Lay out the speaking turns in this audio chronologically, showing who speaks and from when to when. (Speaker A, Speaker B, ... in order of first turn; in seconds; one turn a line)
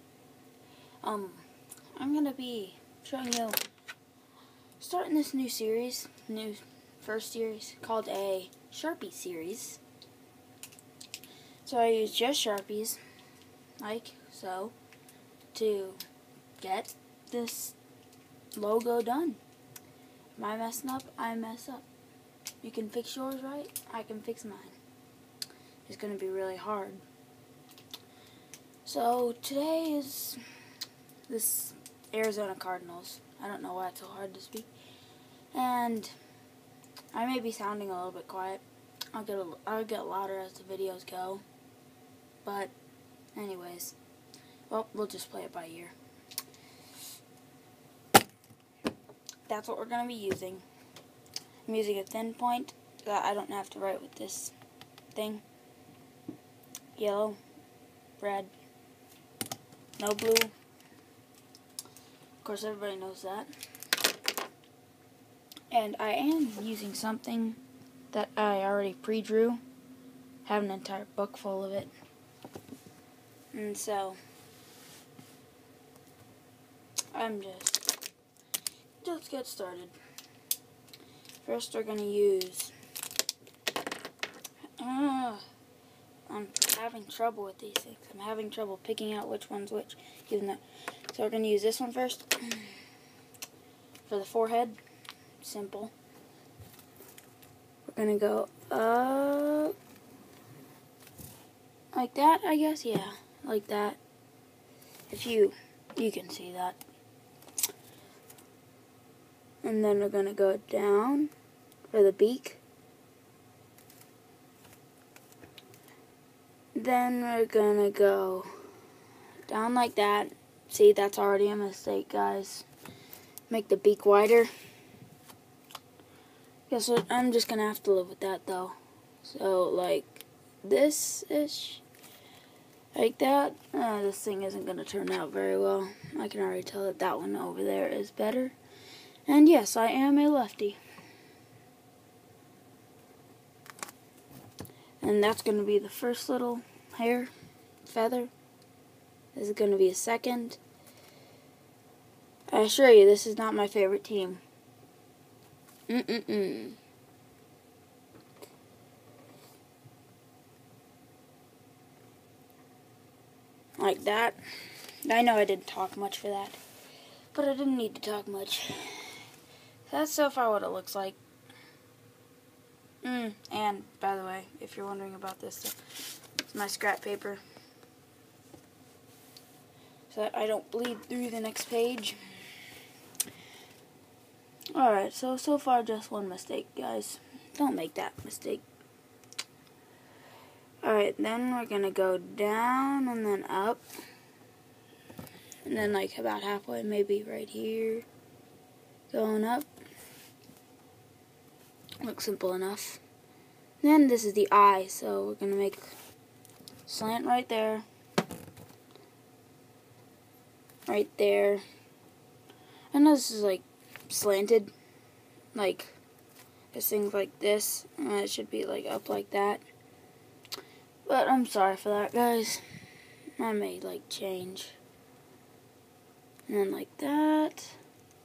Speaker A: 1.0-1.4
Speaker A: 2.0-3.6
Speaker A: 4.8-9.8
Speaker A: 11.6-13.0
Speaker A: 13.8-14.7
Speaker A: 15.5-16.0
Speaker A: 16.6-17.8
Speaker A: 18.6-19.4
Speaker A: 20.4-21.9
Speaker A: 22.6-24.8
Speaker A: 25.9-27.0
Speaker A: 28.9-30.4
Speaker A: 31.3-34.7
Speaker A: 35.5-36.2
Speaker A: 37.1-38.6
Speaker A: 39.1-41.4
Speaker A: 42.4-42.7
Speaker A: 43.4-44.0
Speaker A: 44.7-46.0
Speaker A: 49.5-50.6
Speaker A: 51.6-54.5
Speaker A: 55.1-55.4
Speaker A: 57.0-57.4
Speaker A: 58.2-58.5
Speaker A: 60.0-60.5
Speaker A: 62.4-63.5
Speaker A: 65.7-67.6
Speaker A: 68.1-69.6
Speaker A: 70.5-71.9
Speaker A: 73.5-74.2
Speaker A: 77.1-78.0
Speaker A: 79.0-79.9
Speaker A: 81.4-82.7
Speaker A: 84.8-85.4
Speaker A: 86.3-92.7
Speaker A: 94.1-94.8
Speaker A: 95.4-95.9
Speaker A: 97.9-99.7
Speaker A: 101.9-104.0
Speaker A: 105.1-106.8
Speaker A: 109.6-111.3
Speaker A: 111.9-112.6
Speaker A: 116.8-118.5
Speaker A: 119.5-122.7
Speaker A: 123.5-124.5
Speaker A: 126.7-131.8
Speaker A: 132.9-138.6
Speaker A: 139.3-140.8
Speaker A: 145.0-147.3
Speaker A: 147.8-148.3
Speaker A: 149.3-150.6
Speaker A: 152.5-154.4
Speaker A: 155.9-156.8
Speaker A: 163.8-166.6
Speaker A: 167.3-169.2
Speaker A: 169.9-171.2
Speaker A: 173.0-175.8
Speaker A: 176.5-177.4
Speaker A: 180.1-182.2
Speaker A: 184.7-188.6
Speaker A: 190.8-193.8
Speaker A: 195.6-198.1
Speaker A: 199.1-199.7
Speaker A: 202.0-203.0
Speaker A: 203.8-206.0
Speaker A: 206.9-207.8
Speaker A: 210.9-211.6
Speaker A: 212.9-214.7
Speaker A: 215.5-216.0
Speaker A: 216.7-219.6
Speaker A: 221.1-222.6
Speaker A: 223.4-224.8
Speaker A: 226.5-227.8